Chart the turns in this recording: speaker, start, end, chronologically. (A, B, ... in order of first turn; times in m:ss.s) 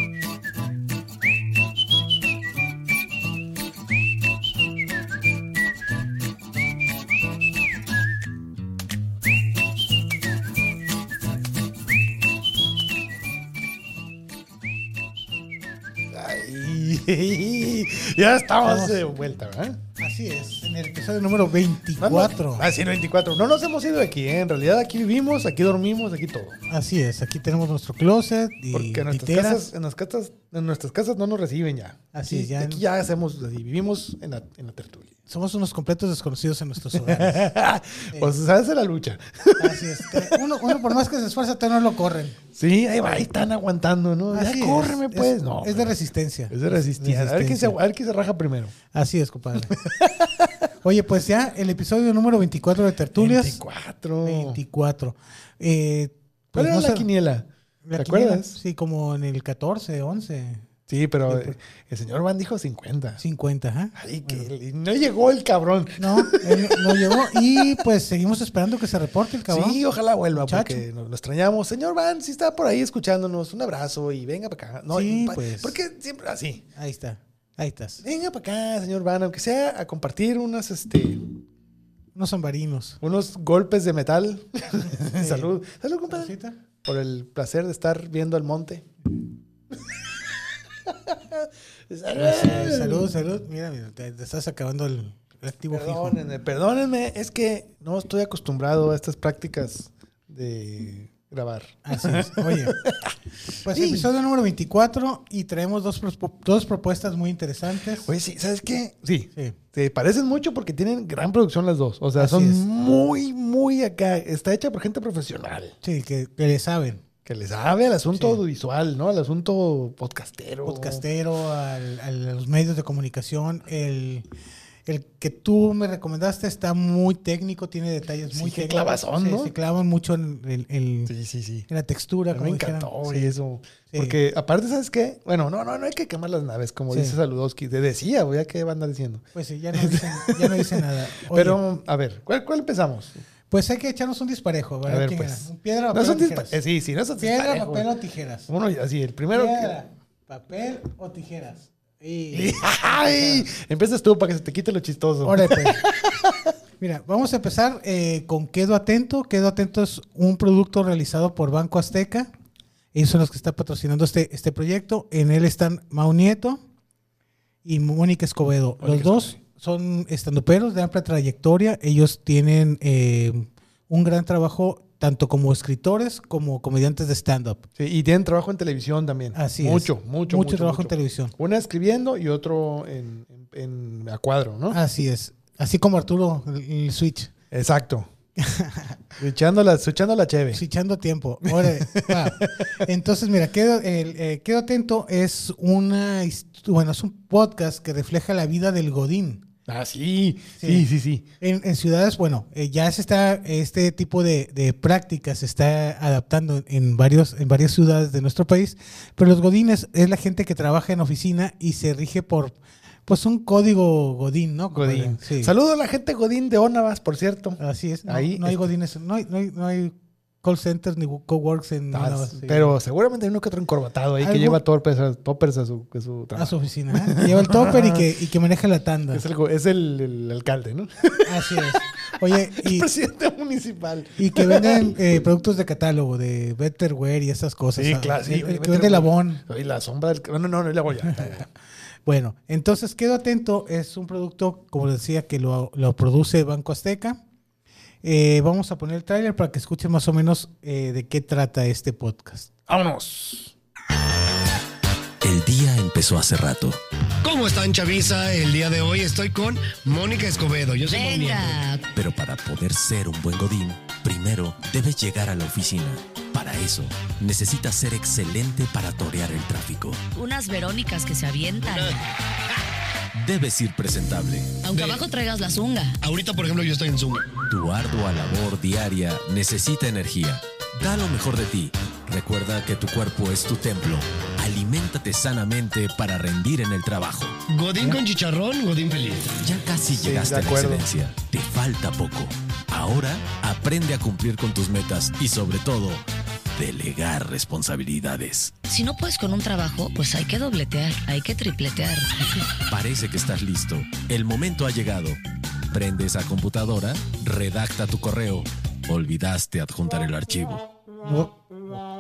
0:16.1-0:19.8 A
0:18.6-0:19.0 B
0:20.0-0:22.7 B
0:22.0-0:26.6 A
0:26.7-0:29.7 B
0:28.7-0:35.1 A
0:32.1-0:32.8 B
0:35.3-0:37.5 B
0:36.9-0:40.9 A
0:39.6-0:42.4 B
0:42.5-0:48.7 A
0:44.3-0:47.8 B
0:48.9-0:49.8 B
0:49.7-0:50.5 A
0:50.8-0:53.6 B
0:53.2-0:54.6 A
0:54.2-0:57.1 B
0:56.5-0:58.6 A
0:57.8-1:00.6 B
1:00.9-1:03.2 A
1:01.3-1:01.6 B
1:03.2-1:04.5 B
1:04.0-1:07.8 A
1:06.0-1:09.8 B
1:09.5-1:16.6 A
1:10.4-1:10.9 B
1:14.9-1:15.8 B
1:16.8-1:18.0 B
1:18.0-1:21.2 A
1:22.2-1:23.0 B
1:23.0-1:26.3 A
1:25.2-1:25.5 B
1:26.1-1:26.6 B
1:26.8-1:28.9 A
1:30.8-1:33.1 A
1:32.2-1:36.2 B
1:35.7-1:44.1 A
1:41.8-1:42.8 B
1:43.6-1:48.1 B
1:48.0-1:55.8 A
1:52.2-1:52.6 B
1:55.8-1:57.0 B
1:57.2-2:01.0 A
1:58.1-1:58.4 B
2:00.6-2:04.2 B
2:04.9-2:11.1 B
2:08.3-2:09.5 A
2:11.1-2:11.7 A
2:11.7-2:13.3 B
2:12.3-2:23.2 A
2:13.9-2:14.2 B
2:16.9-2:17.2 B
2:19.3-2:21.6 B
2:23.5-2:26.6 B
2:24.9-2:27.9 A
2:27.2-2:28.5 B
2:28.5-2:29.8 A
2:29.3-2:33.5 B
2:32.3-2:36.5 A
2:35.2-2:35.8 B
2:36.8-2:42.3 B
2:42.9-2:46.6 B
2:47.6-2:57.6 B
2:48.8-2:49.4 A
2:57.8-3:04.8 A
2:59.4-3:01.3 B
3:04.7-3:07.3 B
3:07.5-3:08.1 A
3:08.4-3:09.0 B
3:09.2-3:10.6 A
3:10.5-3:19.4 B
3:11.4-3:12.6 A
3:19.7-3:21.3 A
3:20.6-3:20.9 B
3:21.4-3:32.6 B
3:33.1-3:35.5 B
3:34.7-3:38.7 A
3:37.6-3:42.7 B
3:41.9-3:48.1 A
3:44.2-3:44.6 B
3:46.4-3:49.2 B
3:49.1-3:55.0 A
3:51.2-3:52.9 B
3:54.2-3:59.4 B
3:57.8-4:01.5 A
4:02.1-4:07.2 B
4:08.0-4:12.5 B
4:12.7-4:13.5 A
4:15.2-4:16.8 C
4:17.2-4:21.6 D
4:20.9-4:21.8 E
4:21.9-4:30.0 C
4:30.2-4:32.0 E
4:31.6-4:32.1 D
4:33.2-4:34.6 C
4:34.6-4:36.0 E
4:34.7-4:35.1 D
4:36.0-4:37.3 D
4:37.5-4:47.4 C
4:47.5-4:49.4 D
4:49.4-4:56.0 C
4:50.0-4:50.9 A
4:56.6-4:58.5 C
4:58.7-5:02.1 E
5:02.7-5:05.2 C
5:05.7-5:10.6 C
5:11.0-5:11.3 B